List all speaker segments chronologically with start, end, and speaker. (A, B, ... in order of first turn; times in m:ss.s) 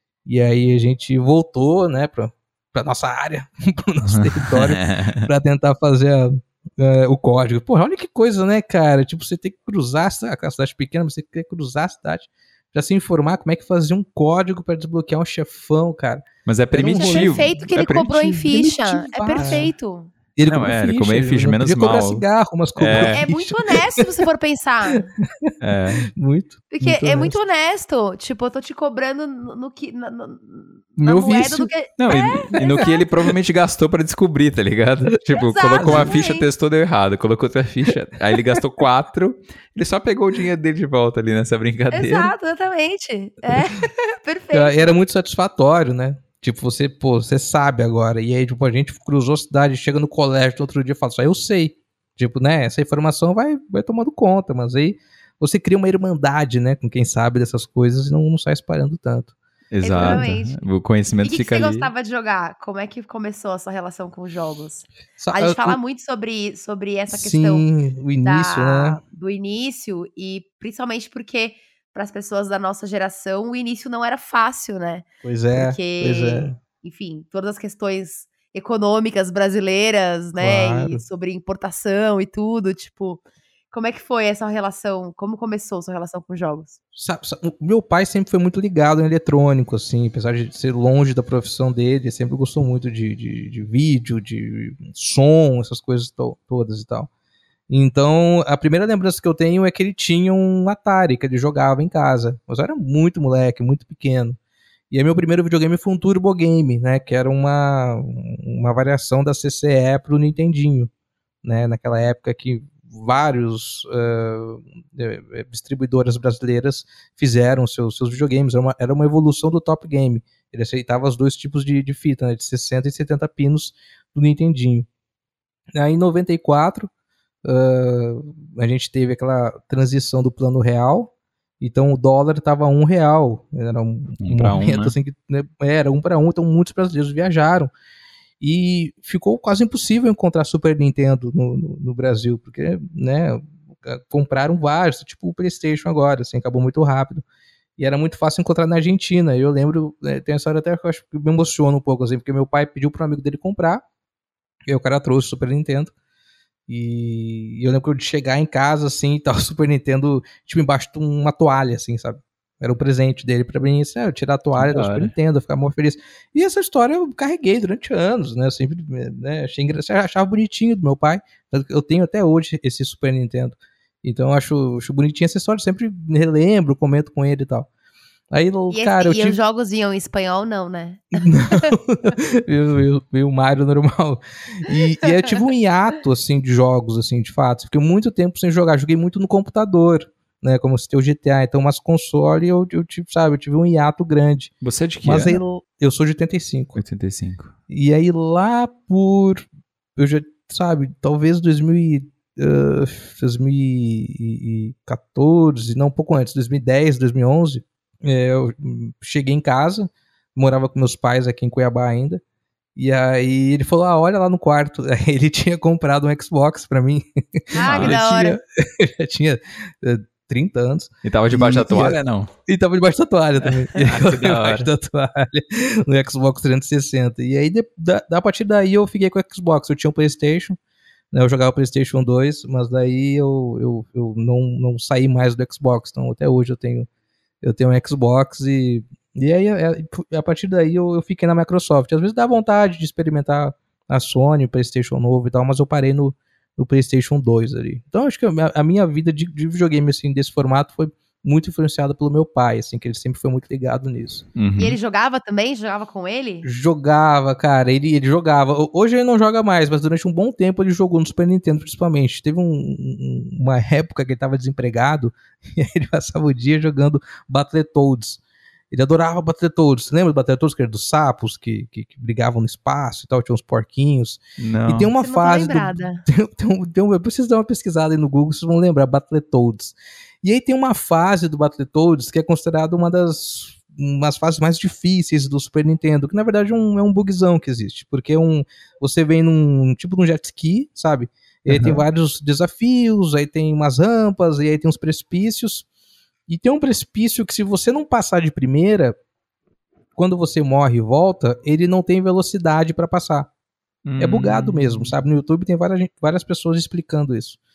0:00.3-0:19.7 A
0:04.0-0:05.3 B
0:16.4-0:18.3 B
0:16.9-0:20.1 C
0:19.4-0:19.7 B
0:20.4-0:24.0 A
0:20.4-0:22.2 B
0:22.8-0:23.2 B
0:23.1-0:25.1 C
0:25.2-0:25.5 A
0:25.6-0:26.1 B
0:26.1-0:27.4 A
0:26.7-0:33.1 C
0:31.0-0:31.7 A
0:32.0-0:42.3 B
0:35.4-0:36.5 C
0:35.8-0:36.3 A
0:41.9-0:44.9 C
0:44.5-0:59.4 A
0:59.7-1:01.9 B
0:59.8-1:00.6 C
1:00.0-1:00.3 A
1:01.2-1:07.7 C
1:05.2-1:05.8 A
1:07.1-1:09.0 A
1:08.2-1:26.8 C
1:15.2-1:16.6 A
1:20.4-1:21.0 A
1:26.9-1:37.1 A
1:37.7-1:44.4 A
1:44.9-1:50.9 A
1:51.4-2:04.9 A
2:05.7-2:06.9 A
2:07.4-2:17.7 A
2:14.2-2:15.0 B
2:18.4-2:27.2 A
2:27.8-2:33.8 A
2:34.7-2:35.9 A
2:36.7-2:57.7 A
2:44.6-2:45.1 B
2:58.3-2:59.4 A
2:58.7-3:01.7 C
3:01.2-3:14.5 A
3:14.6-3:15.4 B
3:15.0-3:16.8 A
3:16.8-3:17.5 B
3:17.7-3:32.2 A
3:32.8-3:50.6 A
3:37.5-3:38.4 C
3:37.6-3:38.0 B
3:41.0-3:42.3 B
3:43.4-3:44.7 B
3:51.1-3:56.9 A
3:57.4-4:14.2 A
4:14.4-4:14.8 B
4:14.6-4:16.5 C
4:16.4-4:55.7 A
4:34.4-4:34.9 B
4:35.0-4:36.0 C
4:51.5-4:51.8 B
4:56.3-4:59.0 A
5:00.0-5:03.3 A
5:03.9-5:04.9 B
5:04.0-5:07.4 A